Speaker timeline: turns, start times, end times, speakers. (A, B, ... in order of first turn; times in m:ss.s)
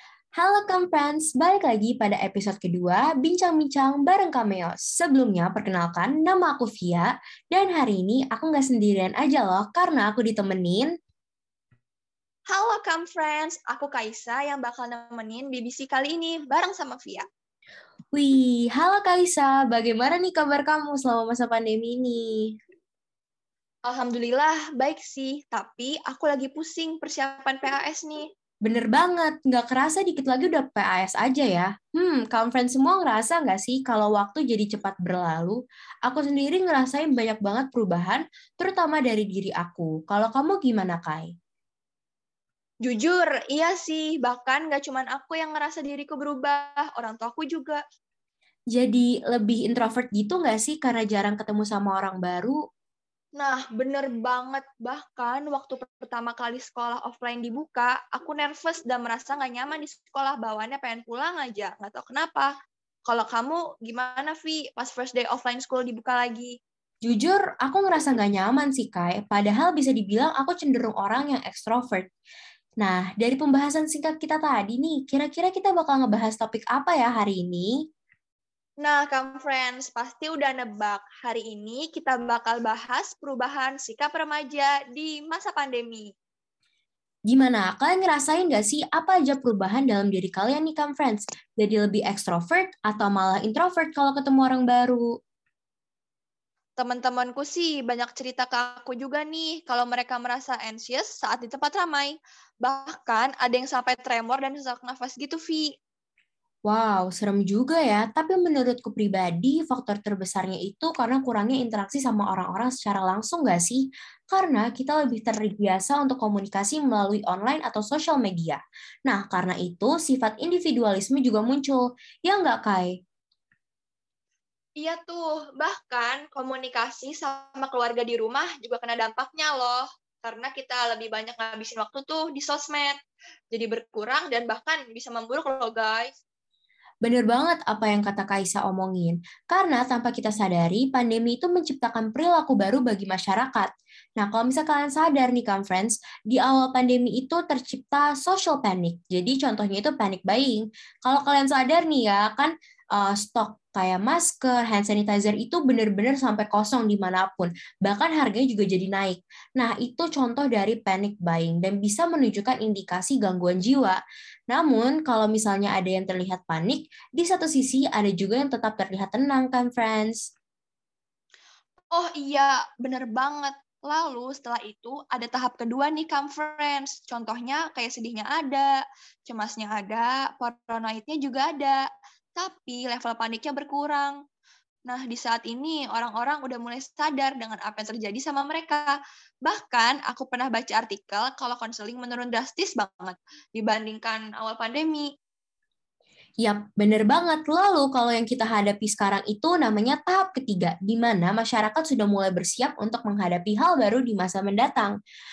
0:00.4-0:10.9 A
0:12.5-0:17.2 B
0:18.1-0:22.5 A
0:23.8-0:28.2 B
0:28.6-0:41.3 A
0:42.8-0:47.8 B
0:48.7-0:52.6 A
0:53.4-1:02.5 B
1:03.1-1:06.5 B
1:07.0-1:12.1 A
1:12.8-1:17.7 A
1:18.8-1:26.1 B
1:27.3-1:35.1 A
1:36.8-1:45.7 B
1:46.7-2:03.0 A
2:04.8-2:13.0 B
2:13.5-2:16.1 B
2:17.0-2:50.2 A
2:51.9-2:58.7 B
2:59.3-3:01.8 B
3:02.4-3:04.2 B
3:04.9-3:15.1 B
3:16.4-3:25.0 A